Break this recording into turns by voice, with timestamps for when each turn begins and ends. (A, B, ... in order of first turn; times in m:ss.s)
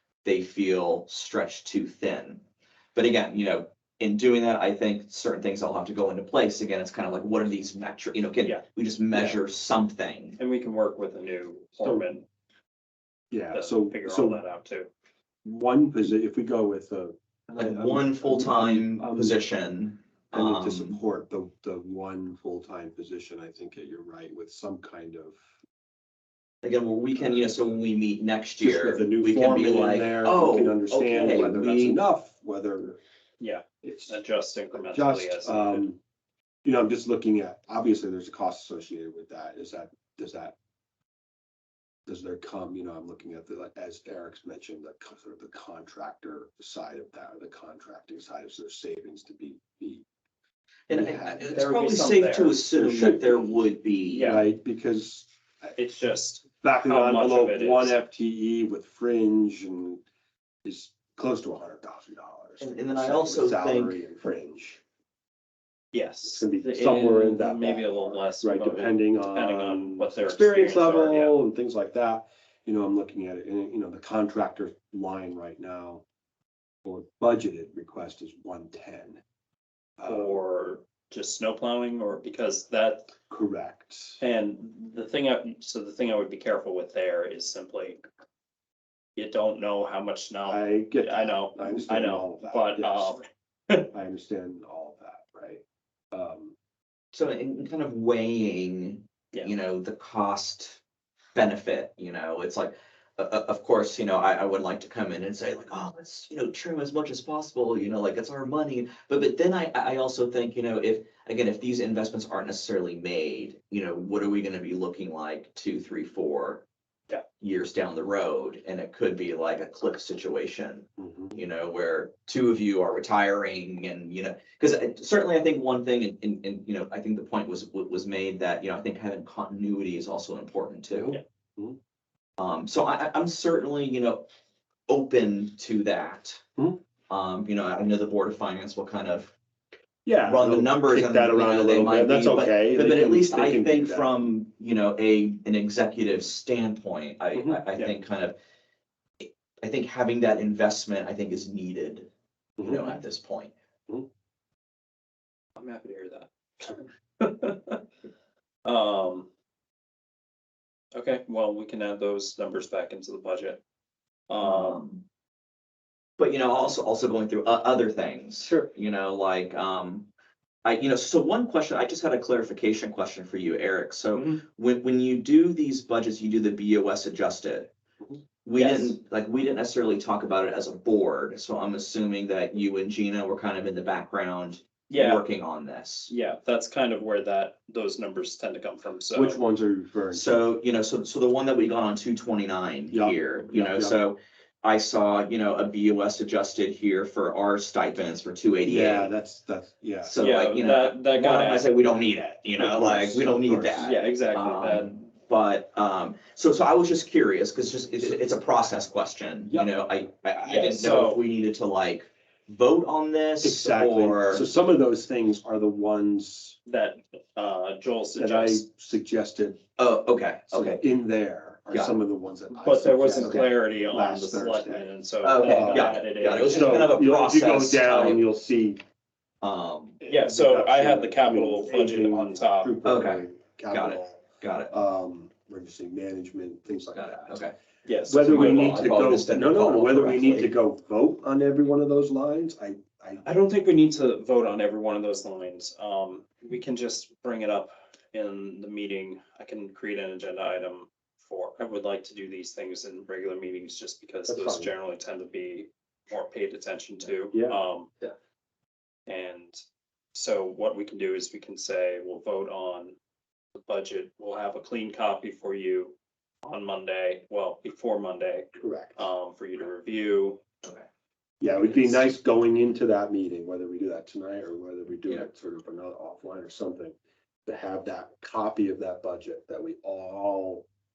0:00.2-0:02.4 A
0:03.0-0:10.4 A
0:09.1-0:09.4 B
0:10.4-0:12.2 C
0:13.3-0:14.4 B
0:13.5-0:14.9 C
0:15.4-0:19.4 B
0:17.6-0:21.0 A
0:20.3-0:25.4 B
0:26.6-0:32.0 A
0:27.2-0:27.8 B
0:28.6-0:33.0 B
0:33.4-0:35.9 C
0:33.8-0:34.2 B
0:34.7-0:36.0 B
0:36.6-0:40.6 B
0:42.1-0:50.1 B
0:50.9-0:54.4 A
0:50.9-0:51.6 B
0:51.4-0:52.6 C
0:52.7-0:53.5 B
0:54.1-0:54.5 C
0:54.2-0:55.7 B
0:55.8-0:58.0 C
0:56.6-1:00.0 B
1:00.6-1:04.8 B
1:02.6-1:04.0 A
1:05.9-1:11.3 C
1:06.3-1:16.0 B
1:16.8-1:19.2 B
1:20.0-1:20.4 B
1:20.0-1:23.1 C
1:23.3-1:24.2 B
1:24.2-1:28.0 C
1:29.2-1:33.9 C
1:30.5-1:33.2 B
1:33.9-1:36.6 B
1:37.1-1:40.8 A
1:41.4-1:56.6 A
1:57.4-2:11.2 A
2:01.0-2:01.4 B
2:11.0-2:11.8 B
2:12.4-2:14.2 A
2:14.9-2:16.4 A
2:17.1-2:19.3 A
2:20.0-2:24.3 B
2:20.2-2:28.4 A
2:27.4-2:27.6 B
2:29.2-2:32.1 A
2:32.6-2:33.0 B
2:32.6-2:33.5 A
2:35.6-2:37.8 C
2:38.6-2:39.3 C
2:40.9-2:43.6 C
2:44.3-2:44.8 C
2:44.4-2:45.0 A
2:46.2-2:50.1 A
2:50.6-2:57.7 A
2:54.2-2:54.4 C
2:58.4-3:06.1 A
2:58.5-2:59.0 C
3:04.9-3:05.2 C
3:06.1-3:09.4 C
3:09.1-3:10.4 B
3:10.1-3:19.1 A
3:12.9-3:14.0 B
3:18.6-3:20.2 B
3:20.0-3:34.5 A
3:20.2-3:21.8 C
3:22.6-3:23.9 B
3:23.8-3:25.0 C
3:29.5-3:29.7 B
3:30.5-3:31.2 C
3:33.4-3:36.6 B
3:36.7-3:38.7 C
3:38.2-3:39.6 B
3:39.8-3:40.8 A
3:40.5-3:48.8 B
3:41.7-3:42.0 A
3:42.6-3:47.0 C
3:43.2-3:43.4 A
3:45.2-3:48.2 A
3:49.4-3:50.0 A
3:50.0-3:57.4 B
3:50.1-3:52.7 C
3:52.8-3:54.7 A
3:56.9-3:57.5 A
3:57.9-3:58.9 C
3:58.0-4:03.3 B
3:58.1-4:00.5 A
4:03.2-4:17.9 C
4:14.3-4:14.7 B
4:17.3-4:17.6 B
4:19.1-4:19.6 C
4:20.1-4:23.0 C
4:23.6-4:30.4 C
4:28.6-4:29.1 B
4:31.4-4:40.6 B
4:31.6-4:32.0 A